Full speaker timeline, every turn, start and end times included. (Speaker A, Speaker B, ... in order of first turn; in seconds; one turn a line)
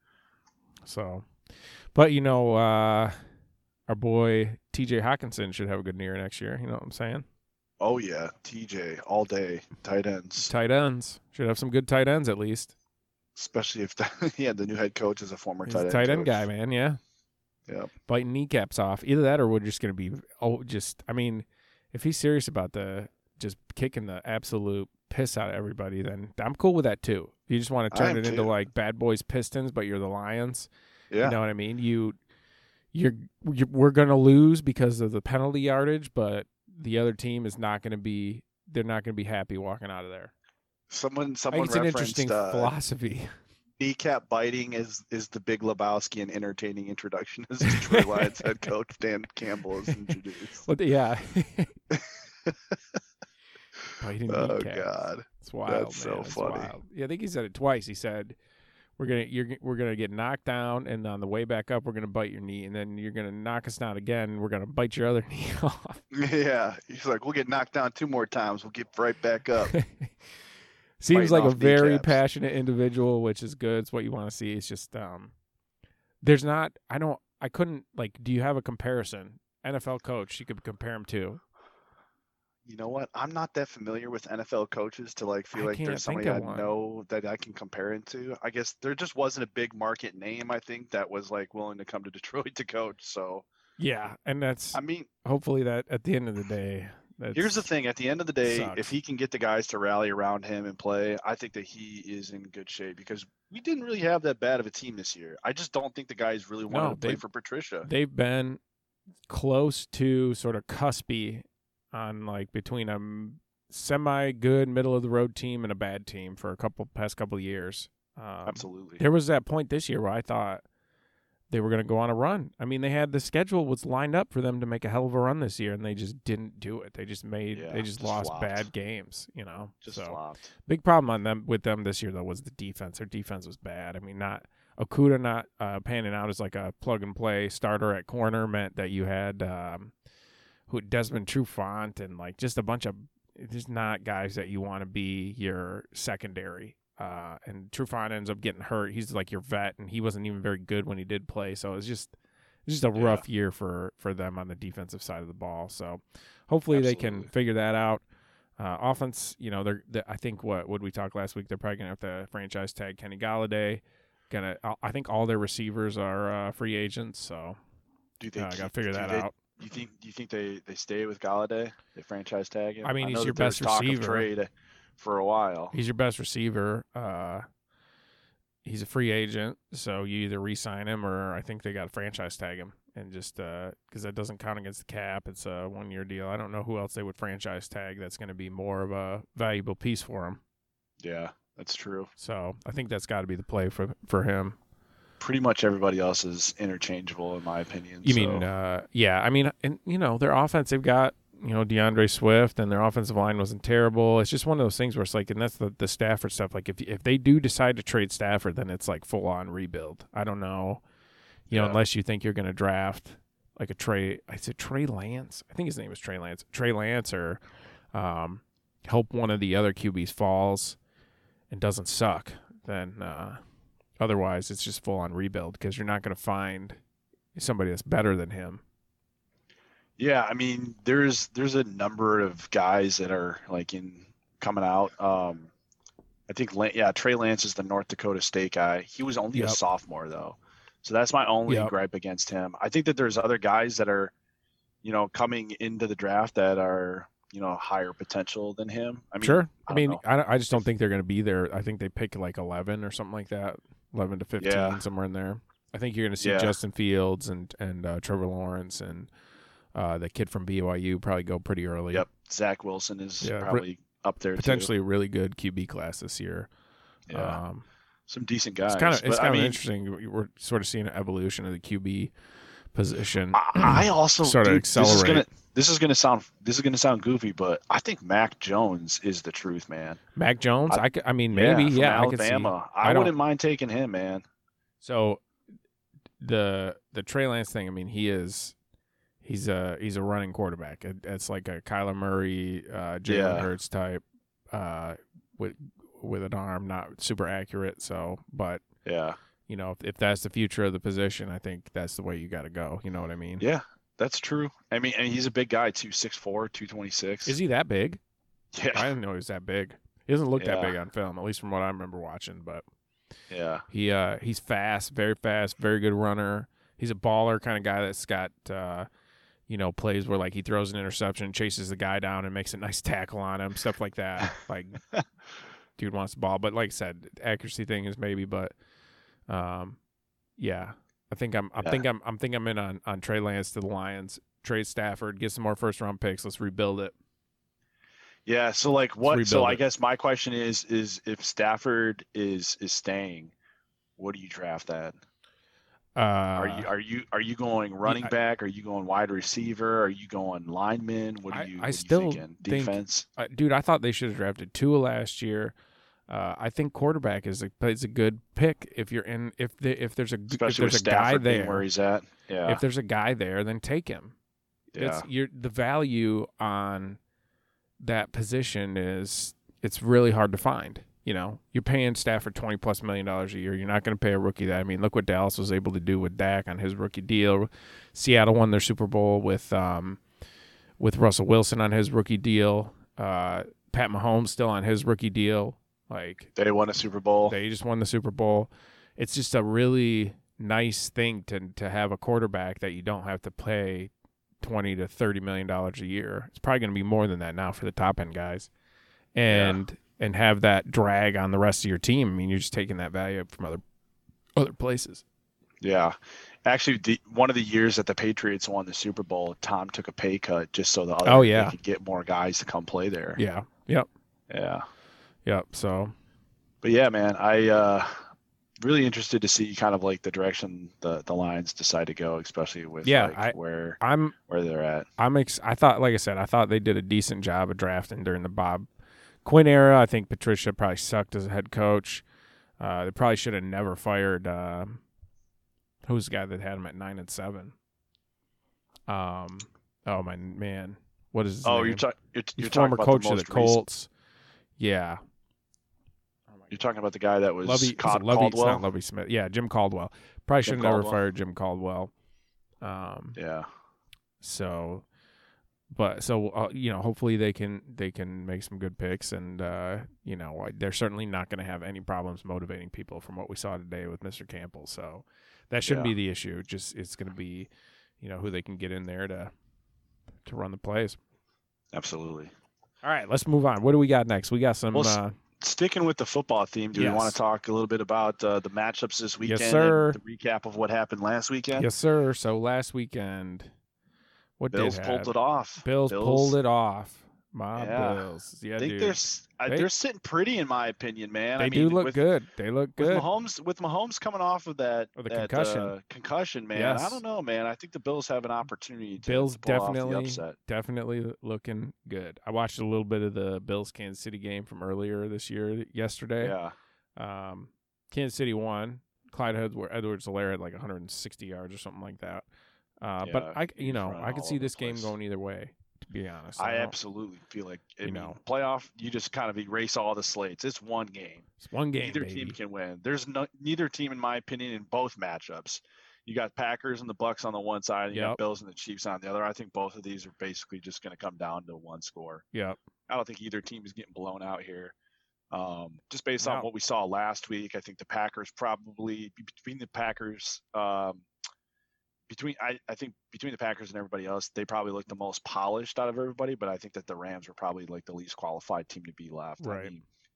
Speaker A: 0.8-1.3
Speaker A: 1.9-3.1
Speaker A: 3.9-7.2
Speaker B: 7.8-10.5
Speaker A: 10.4-12.7
Speaker B: 13.3-16.4
Speaker A: 15.7-17.0
Speaker A: 18.1-30.7
Speaker B: 27.9-28.5
Speaker B: 31.1-31.4
Speaker A: 31.2-32.2
Speaker A: 32.9-40.3
Speaker B: 40.9-42.7
Speaker A: 41.5-43.3
Speaker B: 43.8-50.6
Speaker A: 47.6-48.5
Speaker A: 49.9-51.8
Speaker B: 51.9-52.8
Speaker A: 54.0-58.4
Speaker B: 54.3-56.7
Speaker A: 59.0-66.0
Speaker B: 66.1-69.7
Speaker A: 69.7-70.1
Speaker A: 71.0-75.3
Speaker B: 71.1-72.2
Speaker A: 76.2-81.4
Speaker B: 82.7-93.4
Speaker A: 85.5-86.7
Speaker A: 93.8-97.6
Speaker B: 94.7-95.1
Speaker B: 97.3-107.9
Speaker A: 98.4-98.9
Speaker A: 106.7-107.2
Speaker A: 107.8-108.6
Speaker A: 109.3-120.6
Speaker B: 118.5-119.0
Speaker A: 121.5-139.9
Speaker B: 127.5-128.7
Speaker B: 129.8-130.5
Speaker A: 140.7-152.1
Speaker A: 152.7-158.0
Speaker B: 152.9-153.2
Speaker B: 156.7-157.3
Speaker A: 158.6-167.6
Speaker B: 168.2-175.7
Speaker A: 168.3-169.3
Speaker A: 172.8-174.3
Speaker A: 175.7-177.4
Speaker A: 178.6-190.4
Speaker B: 191.0-192.1
Speaker A: 192.2-194.6
Speaker B: 195.2-198.4
Speaker A: 198.0-210.8
Speaker A: 211.5-217.4
Speaker B: 211.5-211.8
Speaker A: 217.9-220.8
Speaker A: 221.5-223.4
Speaker A: 224.0-226.8
Speaker A: 227.3-228.6
Speaker B: 230.0-235.5
Speaker B: 236.3-244.1
Speaker A: 241.5-241.7
Speaker B: 244.8-250.0
Speaker A: 249.2-259.1
Speaker B: 254.4-254.8
Speaker B: 256.2-256.5
Speaker A: 259.7-262.1
Speaker B: 261.9-264.7
Speaker A: 263.2-263.6
Speaker A: 264.4-266.5
Speaker B: 267.1-267.4
Speaker A: 267.1-267.6
Speaker B: 268.1-269.6
Speaker A: 268.7-272.1
Speaker A: 272.7-275.3
Speaker B: 273.3-280.0
Speaker A: 280.1-283.1
Speaker B: 280.7-284.2
Speaker A: 284.8-285.2
Speaker A: 286.2-288.5
Speaker A: 289.2-298.6
Speaker B: 293.1-293.5
Speaker B: 298.8-299.2
Speaker A: 299.5-303.4
Speaker B: 303.4-307.4
Speaker A: 307.2-308.0
Speaker B: 308.5-308.9
Speaker A: 308.7-312.6
Speaker B: 310.4-310.8
Speaker B: 313.3-313.6
Speaker A: 313.7-318.9
Speaker A: 319.5-324.8
Speaker A: 325.8-328.5
Speaker A: 329.3-329.8
Speaker A: 330.4-336.9
Speaker B: 338.2-343.3
Speaker A: 339.0-339.6
Speaker B: 344.0-344.9
Speaker A: 345.9-346.7
Speaker B: 346.4-353.1
Speaker A: 347.8-348.1
Speaker A: 351.3-355.5
Speaker A: 356.1-361.7
Speaker B: 360.3-362.6
Speaker A: 362.4-364.1
Speaker B: 364.7-365.1
Speaker A: 364.8-367.0
Speaker A: 367.8-380.0
Speaker A: 380.8-386.3
Speaker B: 386.4-387.3
Speaker A: 387.3-393.9
Speaker A: 394.4-398.5
Speaker A: 399.1-403.6
Speaker B: 399.3-399.6
Speaker A: 404.4-405.0
Speaker B: 405.6-413.2
Speaker A: 411.0-411.5
Speaker A: 413.1-413.9
Speaker B: 414.3-414.6
Speaker A: 415.2-415.9
Speaker B: 416.6-417.9
Speaker B: 418.6-424.9
Speaker A: 422.8-424.1
Speaker A: 425.0-428.6
Speaker A: 429.2-432.0
Speaker A: 432.6-434.8
Speaker A: 435.8-437.5
Speaker A: 438.9-441.8
Speaker B: 441.4-443.6
Speaker A: 442.4-443.9
Speaker A: 444.6-445.0
Speaker A: 446.3-446.6
Speaker B: 446.5-448.6
Speaker A: 447.4-451.9
Speaker B: 450.4-451.0
Speaker A: 452.6-453.2
Speaker B: 453.1-453.5
Speaker A: 454.2-454.9
Speaker A: 455.7-467.5
Speaker B: 465.6-465.9
Speaker A: 468.0-469.3
Speaker A: 470.2-471.0
Speaker B: 471.7-472.3
Speaker A: 472.8-475.1
Speaker B: 474.7-481.7
Speaker A: 476.7-477.2
Speaker A: 479.2-480.0
Speaker A: 481.5-483.5
Speaker A: 484.4-489.7
Speaker B: 484.5-486.4
Speaker B: 487.5-488.0
Speaker B: 488.6-492.0
Speaker A: 491.4-493.1
Speaker B: 492.8-500.3
Speaker A: 494.9-495.7
Speaker A: 496.5-497.0
Speaker A: 499.0-506.4
Speaker B: 506.2-506.5
Speaker A: 506.9-512.2
Speaker A: 512.8-516.8
Speaker B: 513.0-514.9
Speaker B: 516.4-521.3
Speaker A: 517.8-518.2
Speaker A: 521.4-522.4
Speaker B: 521.8-532.2
Speaker A: 527.9-528.2
Speaker A: 532.3-532.6
Speaker B: 532.9-534.7
Speaker B: 535.3-541.0
Speaker A: 536.2-536.5
Speaker B: 542.1-549.8
Speaker A: 549.4-549.7